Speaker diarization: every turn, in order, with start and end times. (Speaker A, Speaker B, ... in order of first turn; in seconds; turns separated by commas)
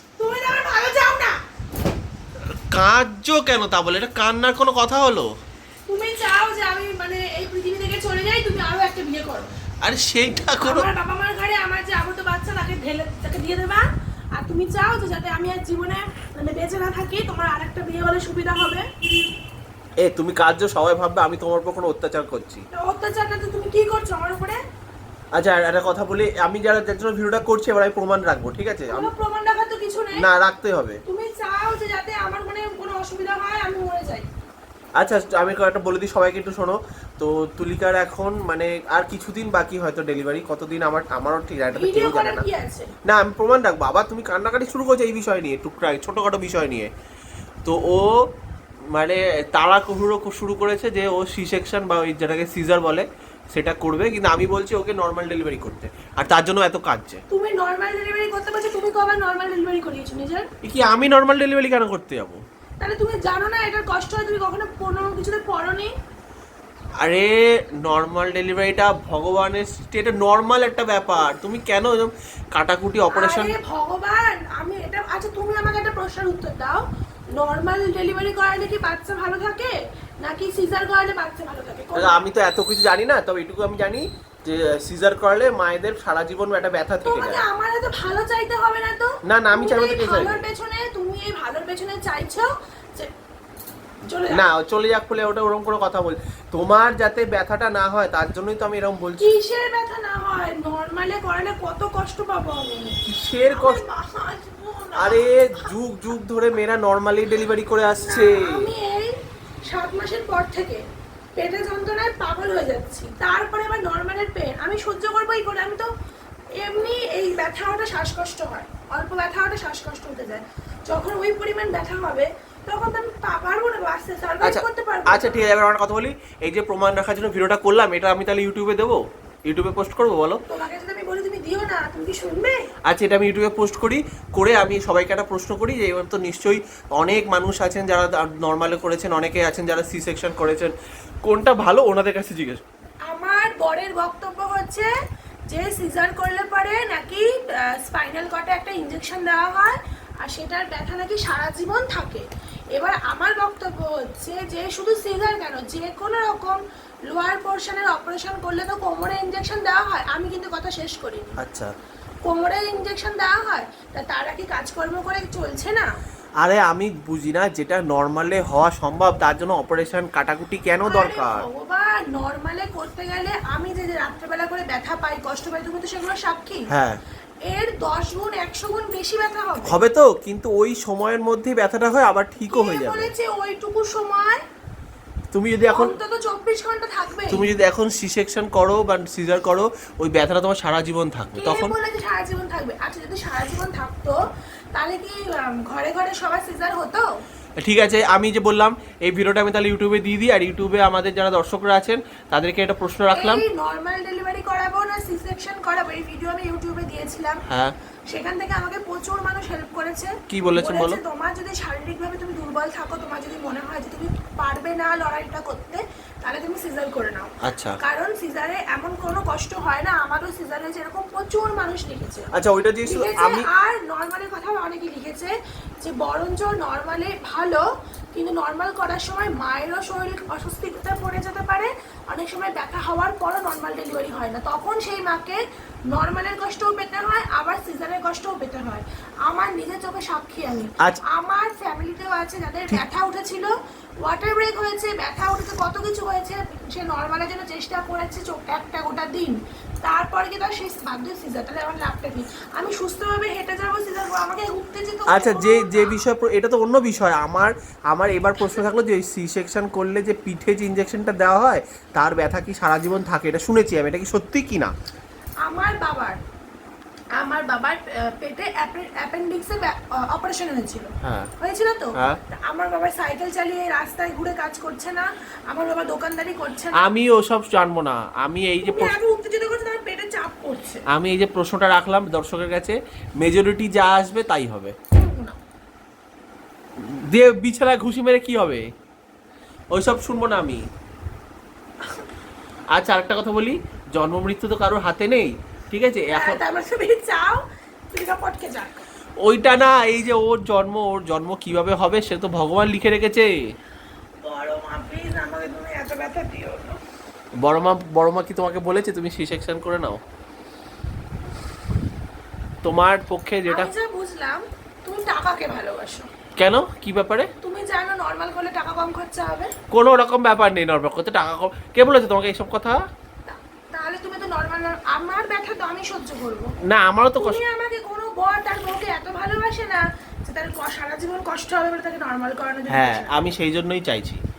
Speaker A: 0.2-1.4, Speaker B: 2.7-5.3, Speaker A: 5.9-9.5, Speaker B: 9.8-10.9, Speaker A: 10.6-18.9, Speaker B: 20.0-22.6, Speaker A: 22.7-24.6, Speaker B: 25.4-29.1, Speaker A: 28.9-30.2, Speaker B: 30.2-31.0, Speaker A: 31.1-34.3, Speaker B: 35.0-42.5, Speaker A: 41.8-42.9, Speaker B: 43.0-46.9, Speaker B: 47.6-48.3, Speaker B: 48.9-57.2, Speaker A: 57.3-60.5, Speaker B: 60.6-62.4, Speaker A: 62.8-65.9, Speaker B: 67.0-73.5, Speaker A: 73.1-82.2, Speaker B: 82.0-87.4, Speaker A: 87.0-93.1, Speaker B: 89.2-90.4, Speaker A: 94.1-94.4, Speaker B: 94.3-99.3, Speaker A: 99.2-105.7, Speaker B: 103.1-103.8, Speaker B: 105.0-108.6, Speaker A: 108.0-109.1, Speaker A: 109.7-110.8, Speaker A: 111.4-115.9, Speaker A: 116.6-125.5, Speaker B: 124.4-130.4, Speaker A: 130.5-132.7, Speaker B: 132.9-142.6, Speaker A: 143.1-144.9, Speaker A: 145.5-161.4, Speaker B: 161.4-161.7, Speaker A: 162.2-165.9, Speaker B: 166.4-171.4, Speaker A: 170.9-176.7, Speaker B: 176.7-177.0, Speaker A: 177.5-179.8, Speaker B: 179.7-183.1, Speaker A: 182.5-184.4, Speaker B: 185.3-185.9, Speaker A: 185.7-187.6, Speaker B: 187.3-191.7, Speaker A: 191.3-194.2, Speaker A: 194.7-197.1, Speaker B: 197.6-203.4, Speaker A: 203.1-207.4, Speaker B: 207.5-207.7, Speaker A: 208.1-222.3, Speaker B: 210.3-211.0, Speaker B: 217.4-217.8, Speaker B: 222.3-223.5, Speaker A: 222.9-227.6, Speaker A: 228.1-235.4, Speaker A: 235.9-243.5, Speaker A: 244.0-256.0, Speaker B: 255.1-264.7, Speaker A: 265.4-266.2, Speaker A: 267.2-276.9, Speaker B: 271.0-271.3, Speaker B: 276.8-279.0, Speaker A: 278.6-280.8, Speaker B: 280.9-284.8, Speaker A: 284.9-285.4, Speaker B: 286.8-288.7, Speaker B: 289.7-290.6, Speaker B: 292.7-296.4, Speaker A: 296.1-298.9, Speaker B: 299.2-303.3, Speaker A: 304.2-306.8, Speaker B: 307.4-310.0, Speaker B: 312.6-313.7, Speaker A: 313.5-316.1, Speaker B: 316.4-317.3, Speaker A: 317.4-319.5, Speaker B: 319.7-322.8, Speaker A: 323.3-326.5, Speaker B: 326.7-327.4, Speaker A: 327.2-333.3, Speaker B: 332.7-334.2